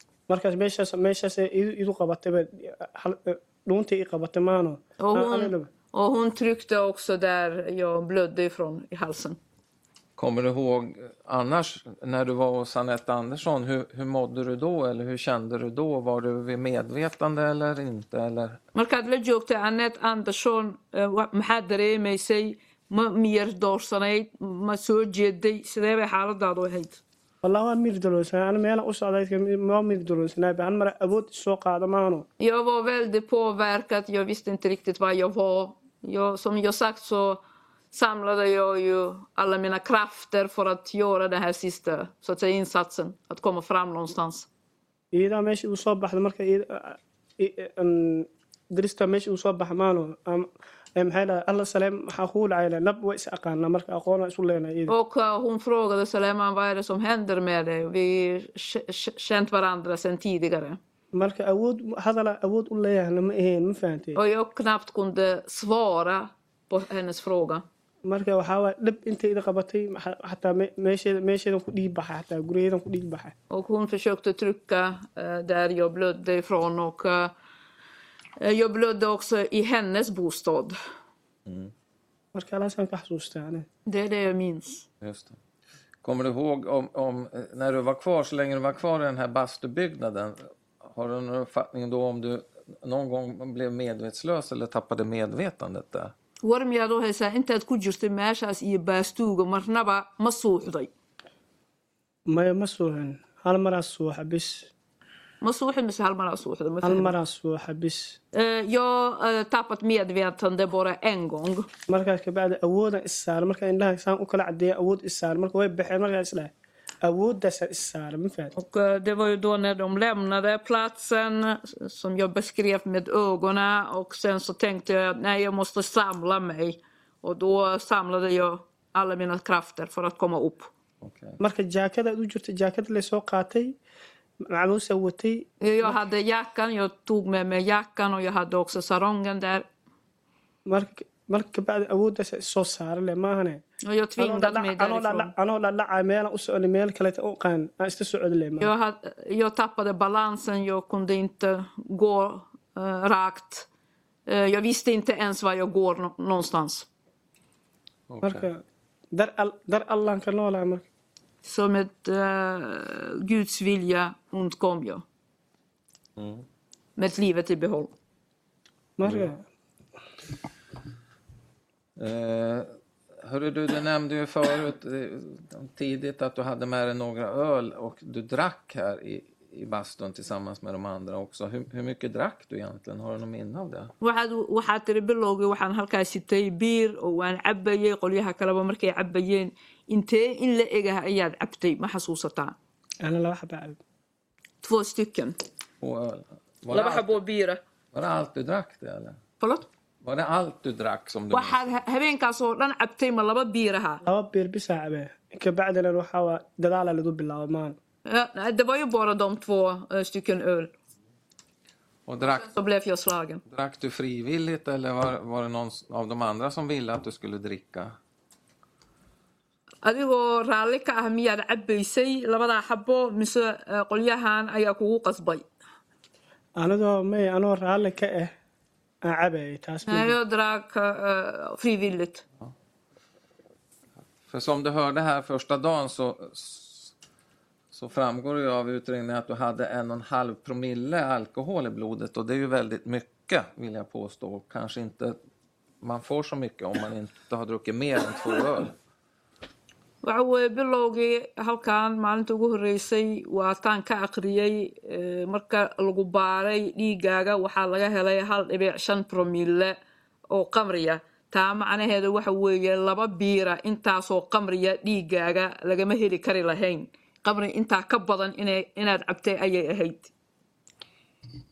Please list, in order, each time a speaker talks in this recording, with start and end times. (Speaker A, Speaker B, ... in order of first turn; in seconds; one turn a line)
Speaker A: 0.3-5.7
Speaker B: 5.0-9.4
Speaker C: 10.2-18.6
Speaker B: 18.8-27.0
Speaker A: 27.4-32.3
Speaker B: 32.4-37.4
Speaker B: 37.9-44.5
Speaker A: 45.1-54.9
Speaker B: 54.9-60.8
Speaker A: 61.1-64.2
Speaker B: 64.2-67.7
Speaker A: 68.0-73.3
Speaker B: 73.5-77.3
Speaker B: 78.4-80.8
Speaker C: 81.5-81.7
Speaker A: 82.3-83.7
Speaker B: 83.9-84.8
Speaker C: 85.0-85.4
Speaker C: 86.0-96.1
Speaker B: 96.4-100.9
Speaker A: 102.3-104.7
Speaker B: 105.4-107.2
Speaker A: 106.8-108.2
Speaker B: 108.3-111.7
Speaker A: 111.9-118.5
Speaker B: 118.5-130.7
Speaker C: 131.0-131.4
Speaker A: 131.4-133.8
Speaker A: 134.4-136.0
Speaker B: 135.6-139.7
Speaker A: 140.7-143.6
Speaker B: 143.8-145.3
Speaker A: 144.2-148.7
Speaker B: 148.6-153.7
Speaker B: 154.3-156.9
Speaker C: 158.1-158.5
Speaker A: 158.2-160.8
Speaker B: 161.4-165.0
Speaker C: 166.2-166.4
Speaker B: 167.0-167.9
Speaker A: 169.0-169.4
Speaker C: 172.0-172.7
Speaker C: 173.2-183.9
Speaker B: 184.0-192.6
Speaker A: 193.0-193.8
Speaker B: 194.6-195.4
Speaker C: 195.8-197.2
Speaker B: 196.7-197.6
Speaker C: 197.9-199.2
Speaker B: 199.4-199.7
Speaker C: 200.0-201.7
Speaker B: 201.3-204.0
Speaker A: 204.0-207.8
Speaker B: 208.1-210.7
Speaker C: 212.1-212.5
Speaker B: 212.2-213.4
Speaker C: 213.5-218.0
Speaker B: 219.8-225.4
Speaker A: 226.6-228.3
Speaker A: 229.0-230.2
Speaker B: 229.9-232.2
Speaker C: 234.3-236.9
Speaker C: 237.7-245.2
Speaker C: 245.8-248.8
Speaker B: 250.0-259.8
Speaker B: 260.3-270.1